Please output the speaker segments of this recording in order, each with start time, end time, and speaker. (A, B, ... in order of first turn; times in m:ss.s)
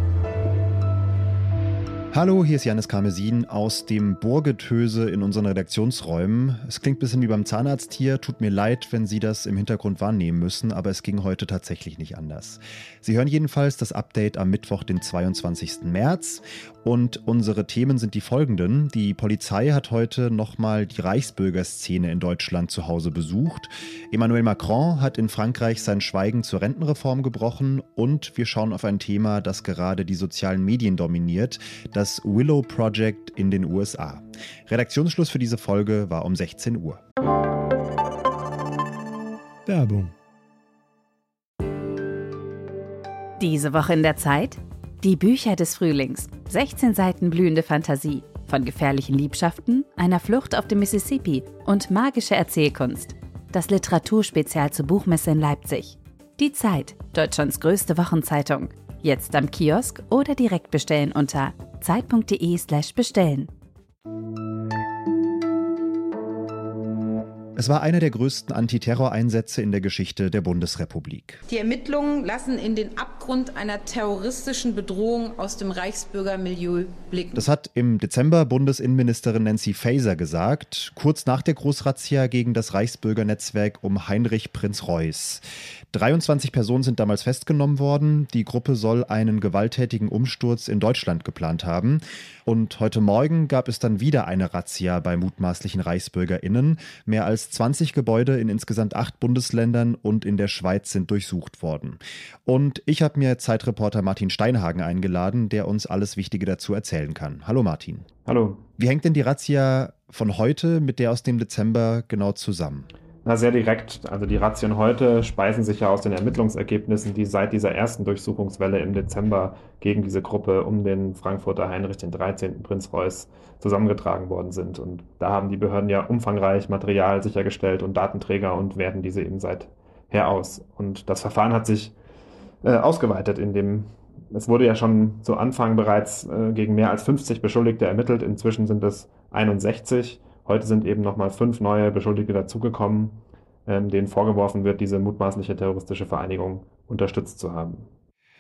0:02.1-0:37.0 A
0:43.4-1:03.5 B
1:07.6-1:11.4 A
1:11.5-1:17.5 C
1:17.3-1:48.1 A
1:48.3-1:48.6 D
1:48.8-1:52.9 A
1:53.2-2:12.0 D
2:12.6-2:27.9 D